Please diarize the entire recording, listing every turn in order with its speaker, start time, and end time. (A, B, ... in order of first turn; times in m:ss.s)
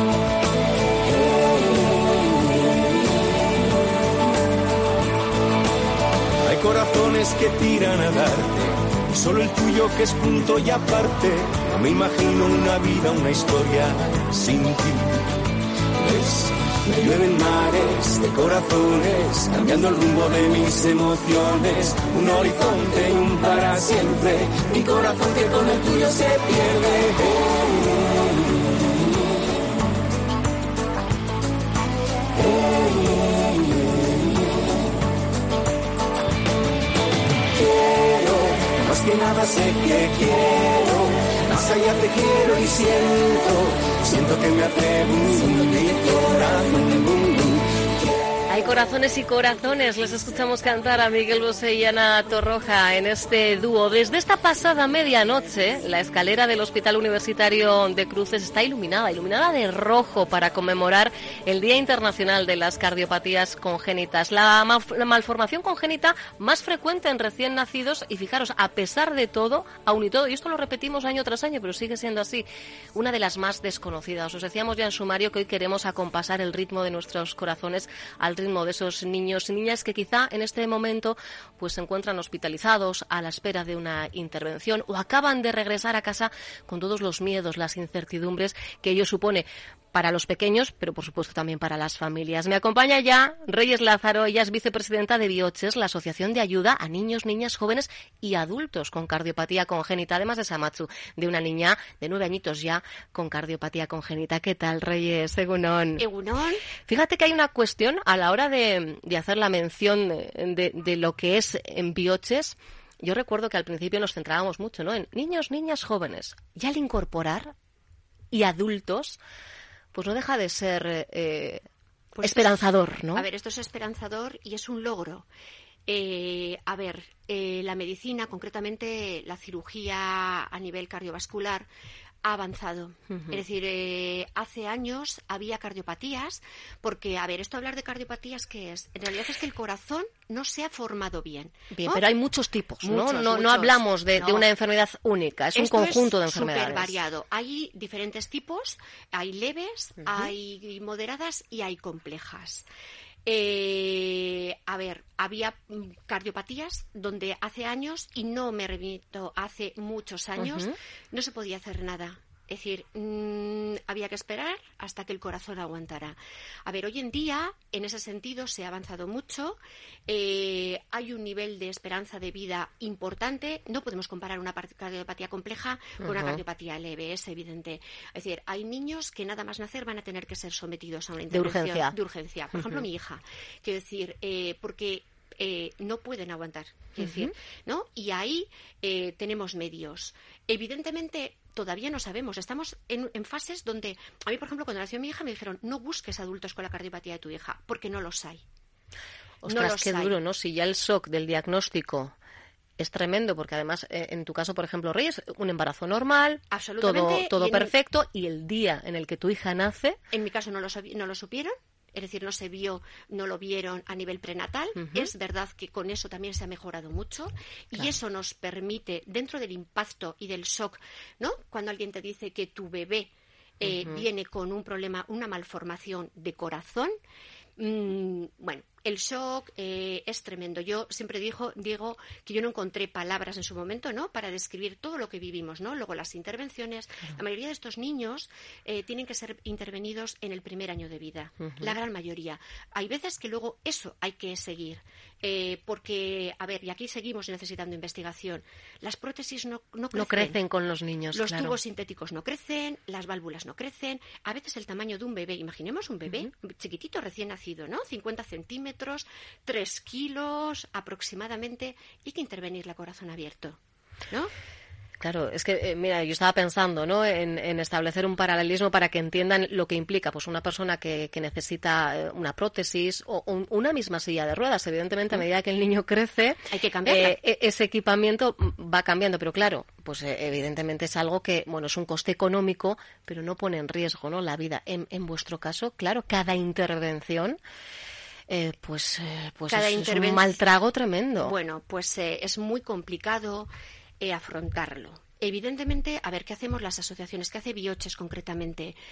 0:06.4-0:15.3 A
0:16.0-0:27.6 A
0:32.4-0:33.5 A
0:37.5-0:47.8 A
0:48.5-1:46.0 B
1:46.0-1:46.6 C
1:46.9-1:57.5 B
1:58.3-1:59.2 B
1:59.9-2:01.6 B
2:02.1-2:02.6 C
2:02.2-2:03.2 B
2:03.1-2:05.3 C
2:05.9-2:11.7 C
2:12.2-2:22.0 C
2:13.1-2:13.4 B
2:21.7-2:27.0 B
2:22.8-2:24.5 C
2:25.5-2:32.6 C
2:33.2-3:18.4 C
2:40.4-2:40.7 B
2:56.0-2:56.4 B
3:01.3-3:01.9 B
3:07.0-3:07.3 B
3:19.4-3:22.1 B
3:19.4-3:20.2 C
3:22.8-3:30.0 B
3:26.5-3:27.7 C
3:30.1-3:46.9 C
3:34.8-3:35.1 B
3:43.6-3:44.0 B
3:47.6-4:10.4 C
4:01.4-4:01.8 B
4:09.9-4:11.6 B
4:11.1-4:23.6 C
4:25.0-4:47.4 B
4:36.5-4:37.2 C
4:48.3-4:51.3 B
4:49.5-4:50.4 C
4:51.2-4:58.8 C